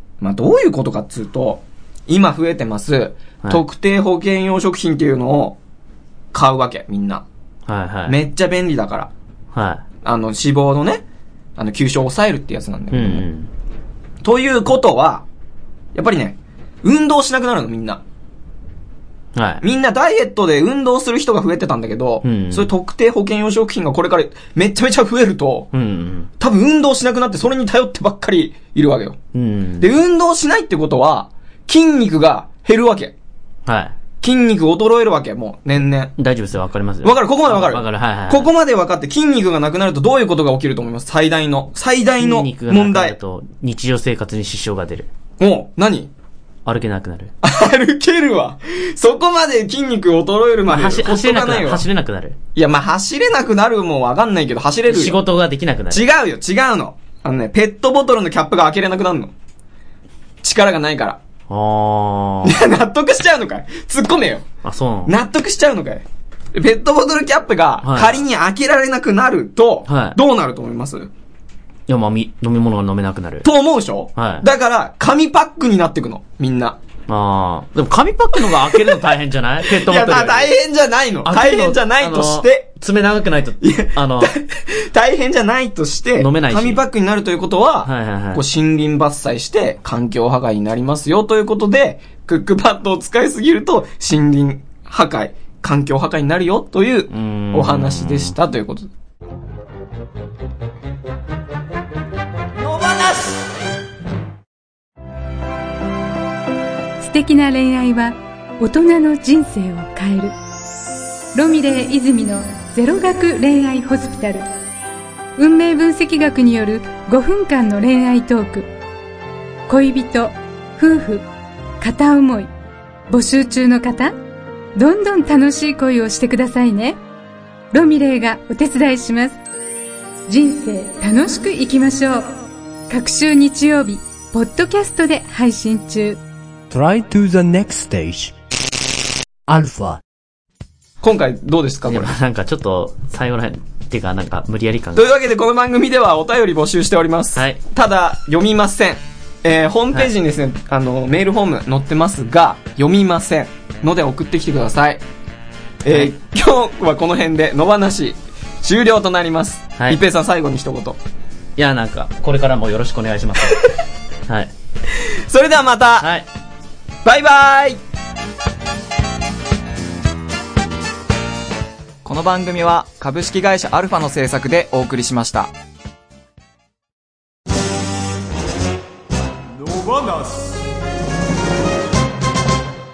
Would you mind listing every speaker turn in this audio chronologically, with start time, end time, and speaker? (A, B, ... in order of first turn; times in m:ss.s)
0:00.2-0:05.6 A
0:06.3-0:07.2 A
0:07.7-0:08.2 B
0:08.1-0:09.1 A
0:09.5-0:09.8 B
0:10.0-0:11.0 A
0:11.6-0:13.2 A
0:12.9-0:13.5 B
0:14.2-0:15.2 A
0:15.9-0:18.0 A
0:19.3-0:19.6 B
0:19.6-0:25.7 A
0:22.2-0:22.7 B
0:25.7-0:26.3 B
0:26.4-0:29.2 A
0:29.3-0:29.9 B
0:29.8-0:33.1 A
0:33.6-0:33.9 B
0:34.2-0:36.2 A
0:36.2-0:38.5 B
0:37.0-0:43.2 A
0:42.2-0:45.1 B
0:45.4-0:46.1 A
0:46.6-0:47.3 B
0:47.4-0:51.9 A
0:50.7-0:52.4 B
0:52.5-0:55.2 A
0:54.9-0:56.1 B
0:55.9-0:59.3 A
1:00.4-1:01.2 A
1:01.5-1:02.6 B
1:02.4-1:04.4 A
1:04.6-1:05.1 B
1:05.0-1:11.1 A
1:07.8-1:08.2 B
1:09.9-1:10.2 B
1:11.9-1:13.5 B
1:13.4-1:16.8 A
1:14.1-1:14.4 B
1:17.1-1:20.5 B
1:18.4-1:19.1 A
1:19.6-1:22.7 A
1:21.2-1:24.3 B
1:23.6-1:38.9 A
1:26.2-1:26.8 B
1:27.8-1:28.4 B
1:37.1-1:38.3 B
1:42.7-1:43.3 A
1:47.0-1:50.3 C
1:51.3-1:54.5 C
1:55.4-1:58.7 C
1:59.7-2:01.2 C
2:01.8-2:02.5 C
2:03.1-2:04.1 C
2:04.7-2:07.0 C
2:07.7-2:09.4 C
2:10.3-2:12.3 C
2:12.9-2:16.2 C
2:16.7-2:18.3 D
2:19.5-2:20.0 D
2:21.0-2:22.2 A
2:21.8-2:25.1 B
2:24.9-2:35.0 A
2:27.3-2:27.6 B
2:35.8-2:41.0 A
2:41.6-2:43.7 B
2:44.9-2:46.1 A
2:46.0-2:46.3 B
2:47.0-2:47.8 A
2:52.0-2:55.5 A
2:59.7-3:00.4 A